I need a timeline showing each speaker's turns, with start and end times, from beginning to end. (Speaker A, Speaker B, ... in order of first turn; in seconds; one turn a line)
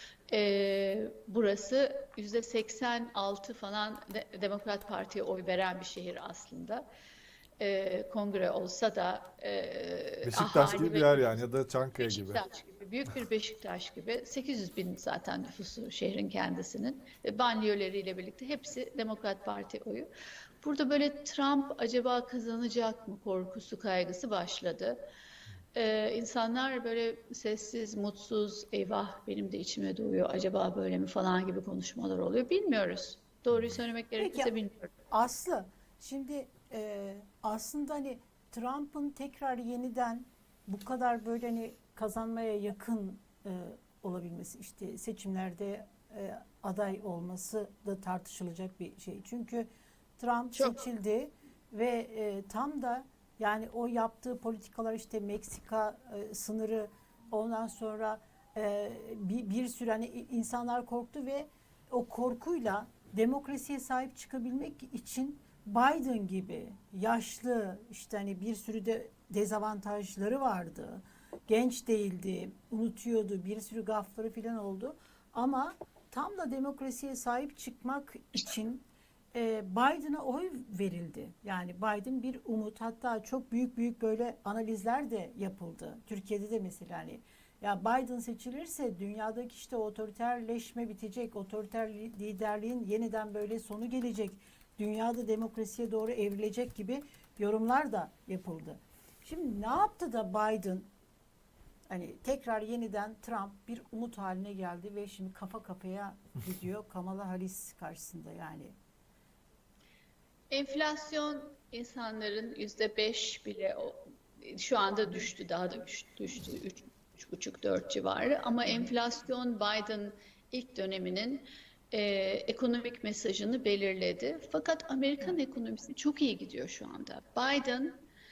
Speaker A: 0.3-6.8
Speaker A: 7.6-11.3
Speaker B: 10.2-12.4
Speaker A: 12.0-20.1
Speaker A: 20.6-25.0
Speaker A: 25.7-34.9
Speaker B: 33.5-33.8
Speaker C: 34.2-34.5
Speaker C: 35.1-100.9
Speaker A: 50.5-50.8
Speaker C: 101.9-108.7
Speaker A: 110.5-128.0